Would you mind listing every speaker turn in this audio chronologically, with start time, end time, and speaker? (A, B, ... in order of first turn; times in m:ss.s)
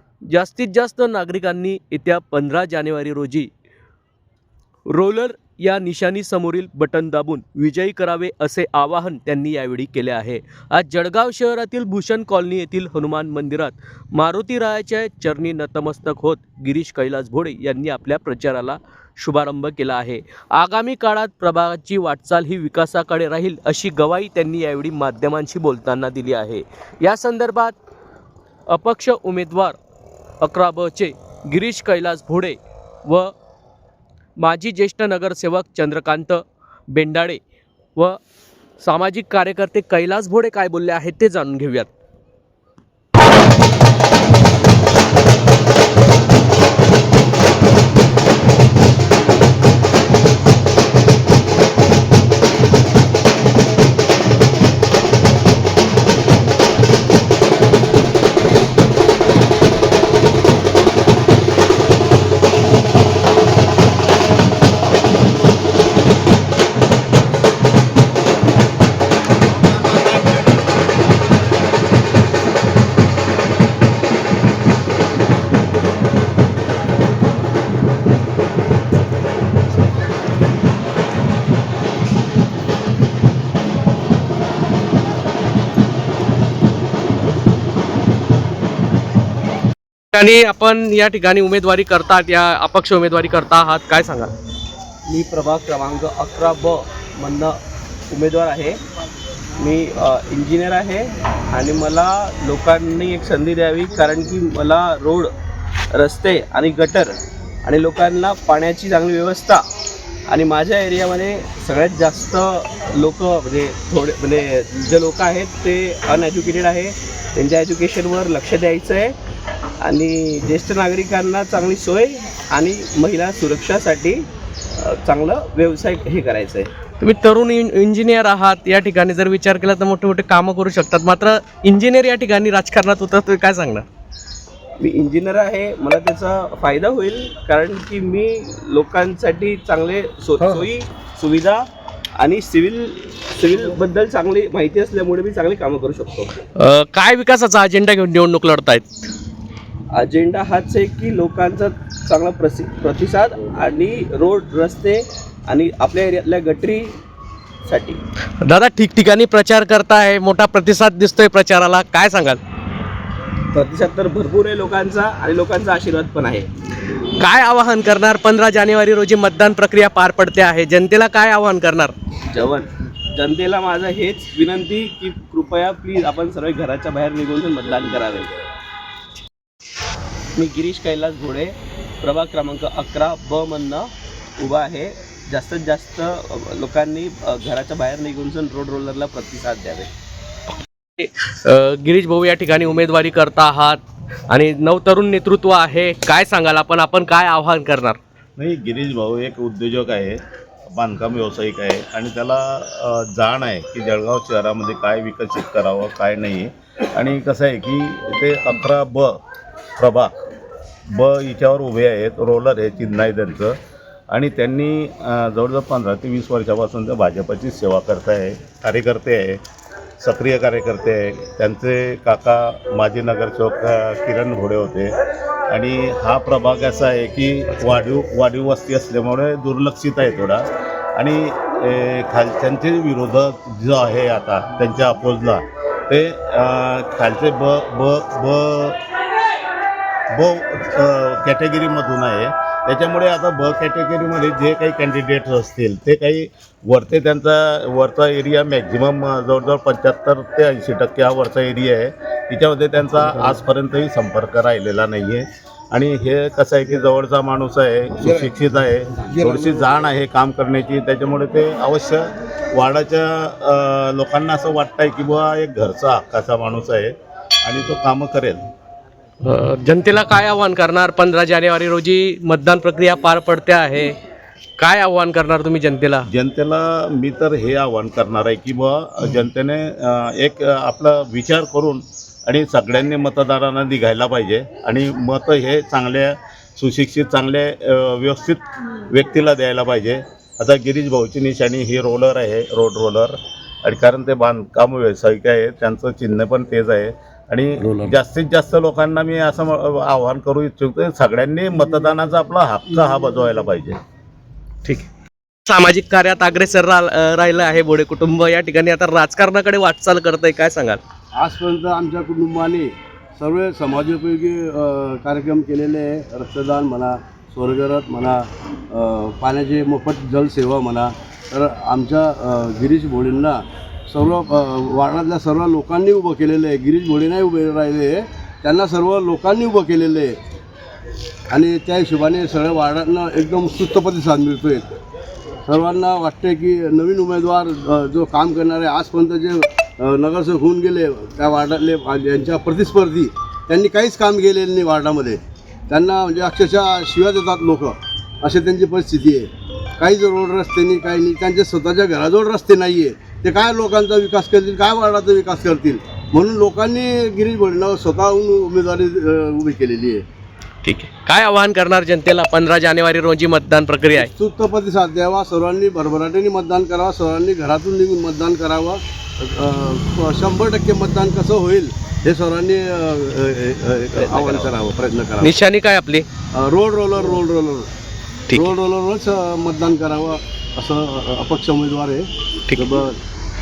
0:00.3-0:03.5 A
0:04.9-0:27.8 A
0:28.7-0:29.8 A
0:30.4-0:33.3 A
0:34.4-0:37.4 A
0:38.8-0:41.9 A
1:30.1-1:34.3 A
1:35.1-1:37.6 B
1:38.1-1:38.8 B
1:39.6-1:45.3 B
1:45.9-1:49.7 B
1:50.3-1:59.2 B
1:59.8-2:04.2 B
2:04.8-2:06.7 B
2:07.0-2:13.9 A
2:14.8-2:21.6 B
2:22.2-2:26.3 B
2:26.6-2:28.8 A
2:29.9-2:37.0 B
2:37.6-2:38.0 B
2:38.4-2:42.4 A
2:43.5-2:46.5 B
2:47.2-2:51.9 A
2:52.3-2:58.4 B
3:00.4-3:09.9 B
3:11.0-3:13.8 A
3:14.3-3:18.0 A
3:18.4-3:20.2 C
3:20.7-3:29.2 C
3:29.8-3:30.2 C
3:30.9-3:33.6 C
3:34.1-3:39.4 C
3:40.0-3:45.0 C
3:45.5-3:58.8 C
4:00.1-4:28.5 C
4:29.2-4:33.9 A
4:34.6-4:36.1 A
4:36.1-5:03.8 C
5:05.5-5:10.8 A
5:11.2-5:30.2 D
5:31.3-5:34.8 D
5:35.5-6:00.1 D
6:00.6-6:04.1 A
6:04.0-6:15.3 D
6:14.0-6:14.5 B
6:15.2-6:16.1 A
6:16.3-6:17.7 D
6:18.3-6:23.0 D